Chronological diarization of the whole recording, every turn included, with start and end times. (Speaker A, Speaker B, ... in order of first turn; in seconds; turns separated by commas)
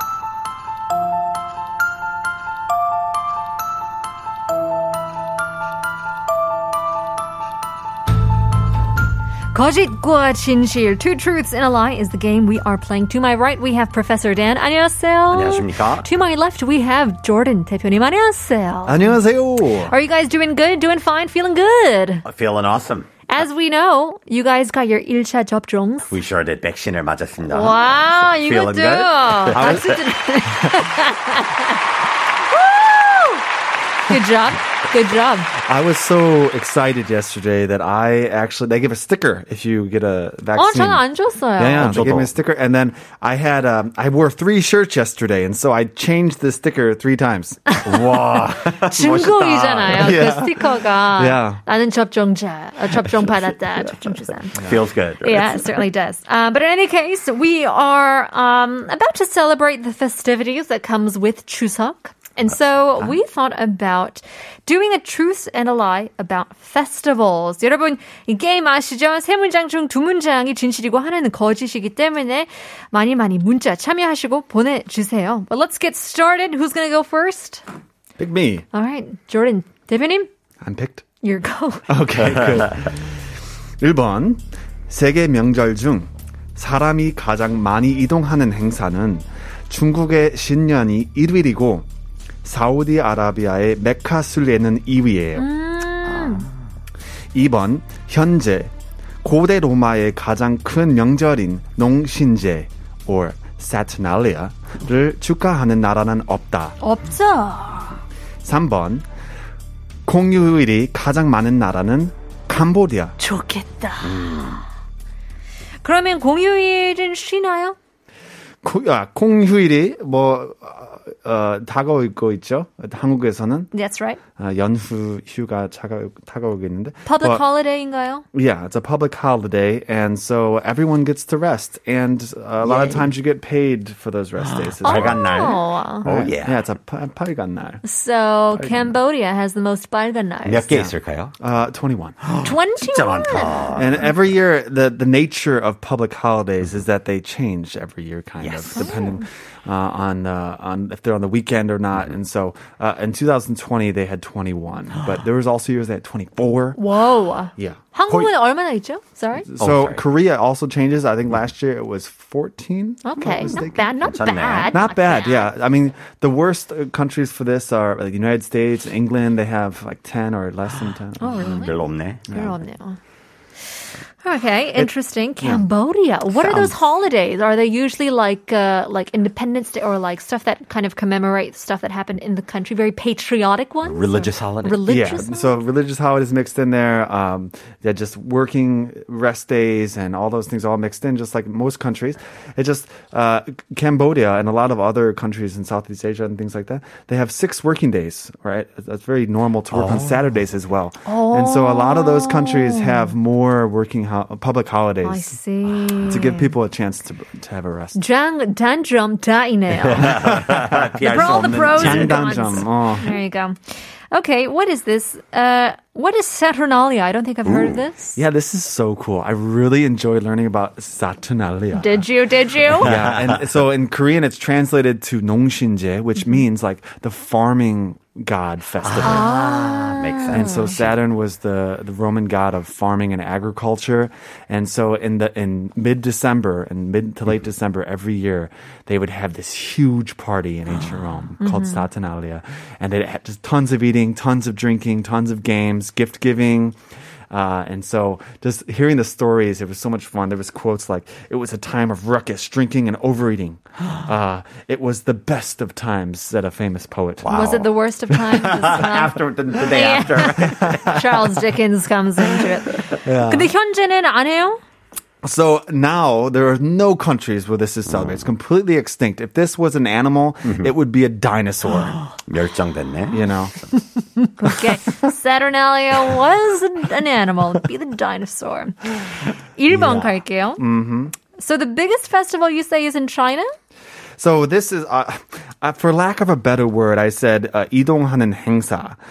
Speaker A: 9.5-19.2, Speaker B: 15.3-16.1, Speaker C: 18.9-19.9, Speaker A: 19.8-22.2, Speaker B: 22.2-23.2, Speaker A: 23.3-26.2, Speaker B: 26.1-30.1, Speaker A: 27.4-31.8, Speaker C: 29.5-29.8, Speaker A: 32.5-33.4, Speaker A: 34.1-35.5, Speaker C: 35.7-41.0, Speaker A: 40.5-42.0, Speaker C: 41.5-48.9, Speaker B: 41.7-42.3, Speaker B: 47.8-50.4, Speaker A: 48.8-54.6, Speaker C: 49.5-51.6, Speaker B: 53.0-53.6, Speaker B: 54.5-55.8, Speaker C: 54.6-54.8, Speaker A: 55.2-77.6, Speaker C: 78.2-78.6, Speaker A: 78.7-80.3, Speaker C: 80.6-81.0, Speaker A: 81.2-81.9, Speaker C: 81.9-83.2, Speaker B: 82.3-82.6, Speaker C: 83.8-91.9, Speaker C: 92.4-95.5, Speaker A: 95.3-96.5, Speaker B: 96.0-96.7, Speaker C: 97.3-98.7, Speaker C: 99.2-106.8, Speaker A: 106.8-108.0, Speaker C: 108.4-109.0, Speaker C: 110.0-113.2, Speaker A: 113.2-114.3, Speaker B: 114.0-114.6, Speaker A: 115.8-117.8, Speaker C: 118.6-123.7, Speaker A: 123.7-124.2, Speaker C: 124.4-127.4, Speaker A: 127.0-128.2, Speaker C: 128.3-135.2, Speaker B: 132.6-133.1, Speaker B: 134.4-136.6, Speaker A: 134.8-136.1, Speaker C: 136.0-137.8, Speaker A: 137.8-140.7, Speaker C: 138.5-138.9, Speaker B: 140.4-141.3, Speaker C: 140.7-142.2, Speaker B: 142.2-144.1, Speaker A: 142.4-143.8, Speaker C: 143.7-156.8, Speaker B: 148.4-149.0, Speaker A: 148.7-149.2, Speaker A: 156.8-159.5, Speaker B: 158.1-158.3, Speaker C: 159.5-164.0, Speaker B: 159.6-160.0, Speaker A: 163.0-165.5, Speaker B: 163.4-164.8, Speaker C: 164.7-171.5, Speaker A: 171.2-173.0, Speaker B: 171.3-172.2, Speaker C: 172.3-172.6, Speaker A: 174.2-185.6, Speaker C: 174.8-175.7, Speaker B: 176.3-176.9, Speaker B: 183.8-184.9, Speaker C: 184.8-205.4, Speaker B: 199.7-200.3, Speaker A: 201.1-203.1, Speaker A: 205.0-206.5, Speaker B: 205.9-206.1, Speaker C: 206.1-208.0, Speaker A: 207.9-210.3, Speaker B: 209.8-212.7, Speaker C: 210.0-213.2, Speaker A: 211.0-218.2, Speaker B: 217.4-217.8, Speaker C: 218.2-222.1, Speaker A: 221.7-222.9, Speaker B: 222.7-223.4, Speaker C: 222.8-229.3, Speaker B: 228.8-231.0, Speaker A: 229.0-230.8, Speaker C: 230.2-246.8, Speaker A: 241.4-241.9, Speaker C: 247.3-257.4, Speaker B: 257.2-261.3, Speaker A: 257.3-264.6, Speaker C: 260.4-260.8, Speaker C: 263.0-263.5, Speaker C: 265.2-272.0, Speaker B: 267.9-268.3, Speaker B: 270.4-270.7, Speaker B: 271.7-273.8, Speaker C: 273.1-273.6, Speaker A: 274.2-280.6, Speaker C: 279.7-281.1, Speaker A: 281.3-283.5, Speaker C: 284.2-289.0